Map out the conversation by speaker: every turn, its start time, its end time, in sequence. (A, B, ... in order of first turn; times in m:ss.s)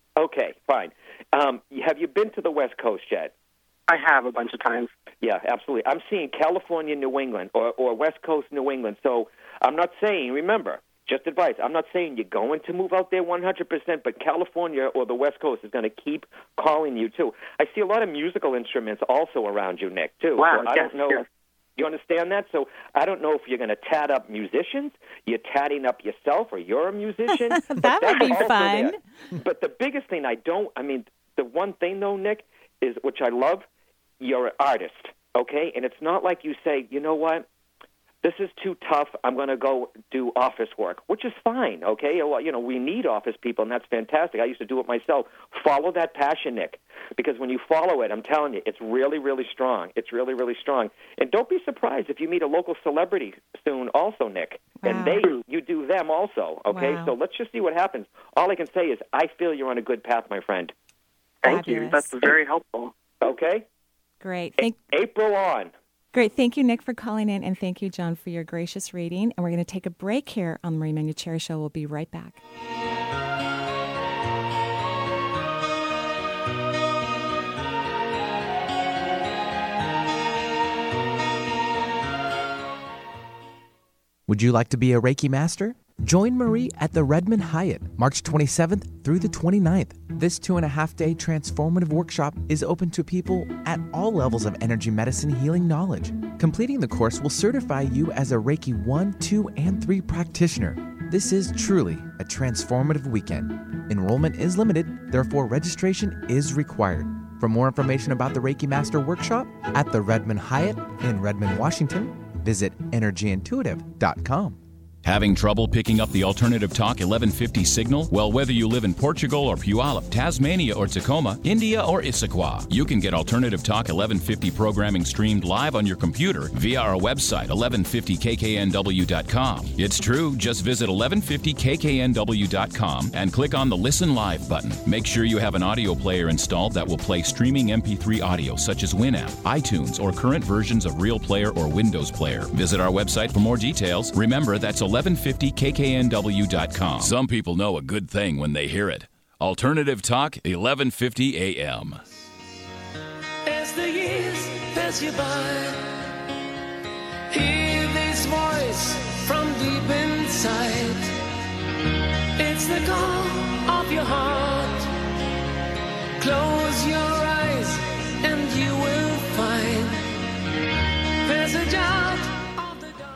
0:00.2-0:03.3 A
0:03.9-0:04.9 B
0:05.2-0:21.2 A
0:20.4-0:21.2 B
0:21.8-0:33.6 A
0:27.6-0:29.0 C
0:34.2-0:37.4 A
0:38.2-1:00.7 A
0:54.8-0:55.2 C
0:56.7-0:57.1 C
1:01.4-1:02.9 B
1:01.4-1:02.2 C
1:03.2-1:03.6 A
1:04.2-1:04.8 C
1:04.6-1:05.7 A
1:06.1-1:12.4 C
1:24.3-1:54.6 D
1:55.0-2:32.0 E
2:33.5-2:35.8 F
2:37.3-2:41.1 F
2:42.4-2:44.9 F
2:46.2-2:50.0 F
2:51.2-2:52.9 F